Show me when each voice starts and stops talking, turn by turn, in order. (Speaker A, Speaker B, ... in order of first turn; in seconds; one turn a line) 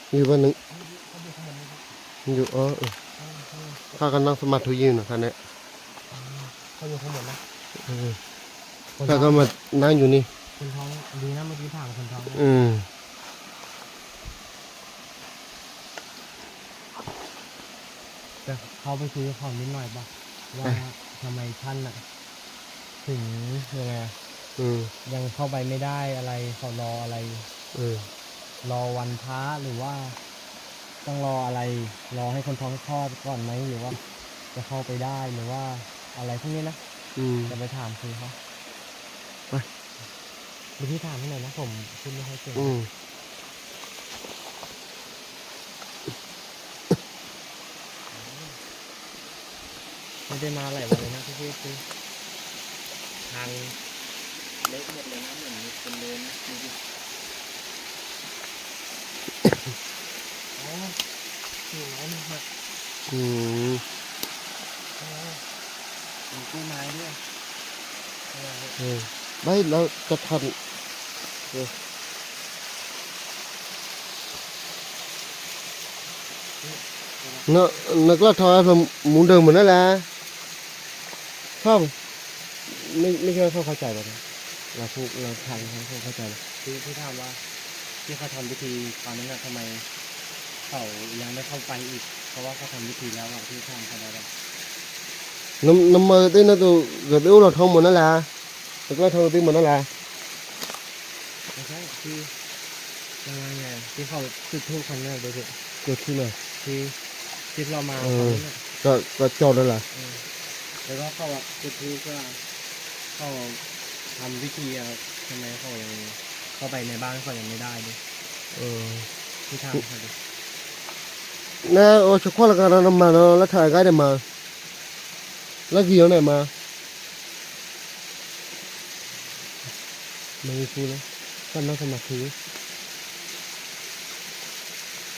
Speaker A: 0.1-0.6
Speaker B: 0.7-1.9
Speaker A: 2.2-3.0
Speaker B: 3.1-3.9
Speaker A: 3.9-5.4
Speaker B: 6.1-7.4
Speaker A: 7.7-8.2
Speaker B: 8.9-9.5
Speaker A: 9.0-10.3
Speaker B: 10.5-12.5
Speaker A: 12.3-12.9
Speaker B: 18.4-22.1
Speaker B: 23.0-24.2
Speaker A: 24.6-24.9
Speaker B: 25.0-27.5
Speaker A: 27.7-28.1
Speaker B: 28.6-30.2
Speaker B: 31.0-34.0
Speaker B: 34.5-36.8
Speaker A: 37.1-37.5
Speaker B: 37.5-38.4
Speaker B: 40.8-42.8
Speaker A: 42.5-42.9
Speaker B: 48.1-48.6
Speaker B: 50.2-51.9
Speaker B: 53.2-53.8
Speaker B: 54.6-56.8
Speaker B: 60.5-61.0
Speaker B: 61.6-62.5
Speaker A: 63.1-63.8
Speaker B: 65.0-65.5
Speaker B: 66.3-67.2
Speaker B: 68.3-68.8
Speaker A: 68.8-70.6
Speaker B: 76.6-77.5
Speaker A: 77.5-80.1
Speaker A: 81.6-81.9
Speaker A: 82.7-84.2
Speaker A: 84.7-86.4
Speaker B: 85.4-85.7
Speaker B: 86.6-87.4
Speaker B: 88.0-89.9
Speaker B: 90.6-94.3
Speaker A: 95.6-98.3
Speaker A: 98.9-99.9
Speaker B: 101.5-102.3
Speaker B: 103.2-105.6
Speaker A: 105.8-106.4
Speaker B: 106.5-107.0
Speaker B: 107.5-108.6
Speaker A: 108.0-109.9
Speaker B: 109.9-110.3
Speaker B: 110.8-112.4
Speaker B: 113.1-118.0
Speaker A: 118.5-119.1
Speaker B: 119.5-120.2
Speaker A: 121.6-124.2
Speaker A: 125.7-126.5
Speaker B: 129.0-129.5
Speaker A: 130.4-132.3